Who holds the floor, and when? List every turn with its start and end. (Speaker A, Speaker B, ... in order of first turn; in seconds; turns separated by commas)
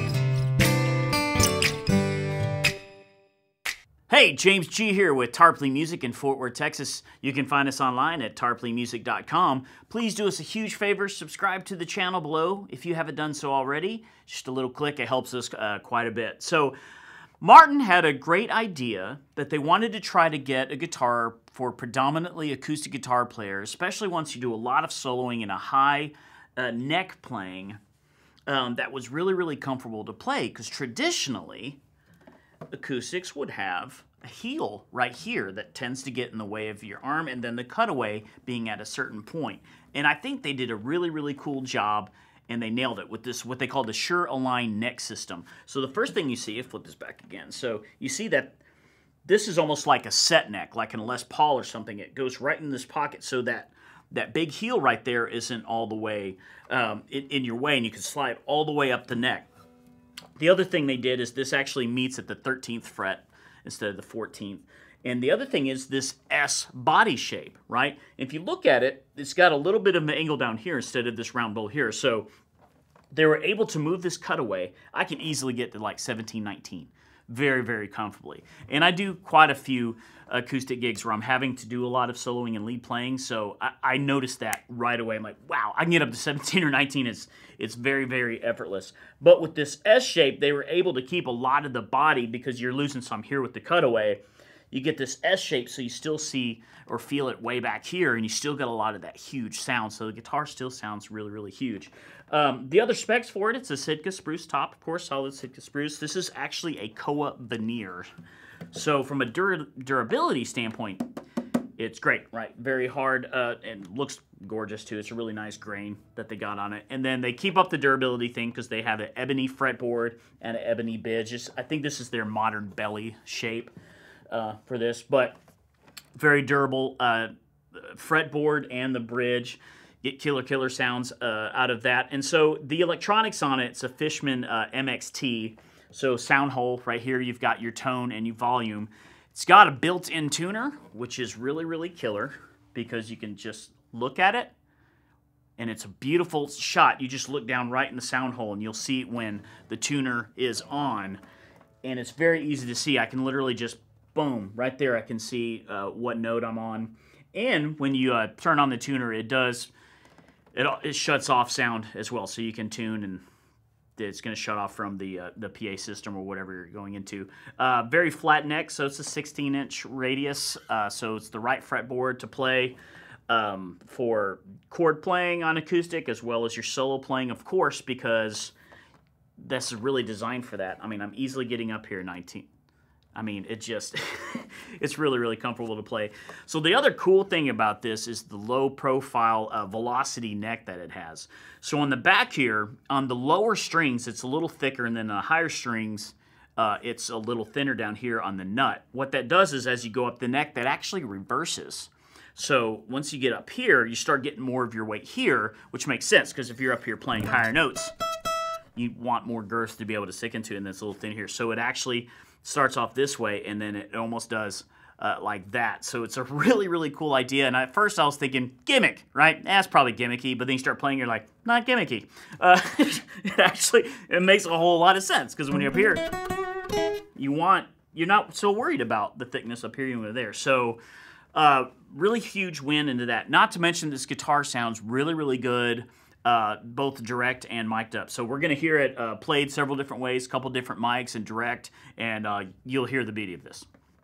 Speaker A: 4.1-16.7, Speaker A: 17.4-27.8, Speaker A: 28.5-31.8, Speaker A: 32.7-48.6, Speaker A: 49.2-59.5, Speaker A: 60.4-72.3, Speaker A: 73.1-94.2, Speaker A: 94.7-108.1, Speaker A: 108.7-111.0, Speaker A: 111.8-123.7, Speaker A: 124.3-125.4, Speaker A: 126.1-144.5, Speaker A: 145.6-151.2, Speaker A: 151.8-159.7, Speaker A: 160.5-163.2, Speaker A: 164.0-172.8, Speaker A: 173.3-178.5, Speaker A: 179.4-182.5, Speaker A: 183.1-207.9, Speaker A: 208.7-226.1, Speaker A: 227.2-230.8, Speaker A: 231.3-243.7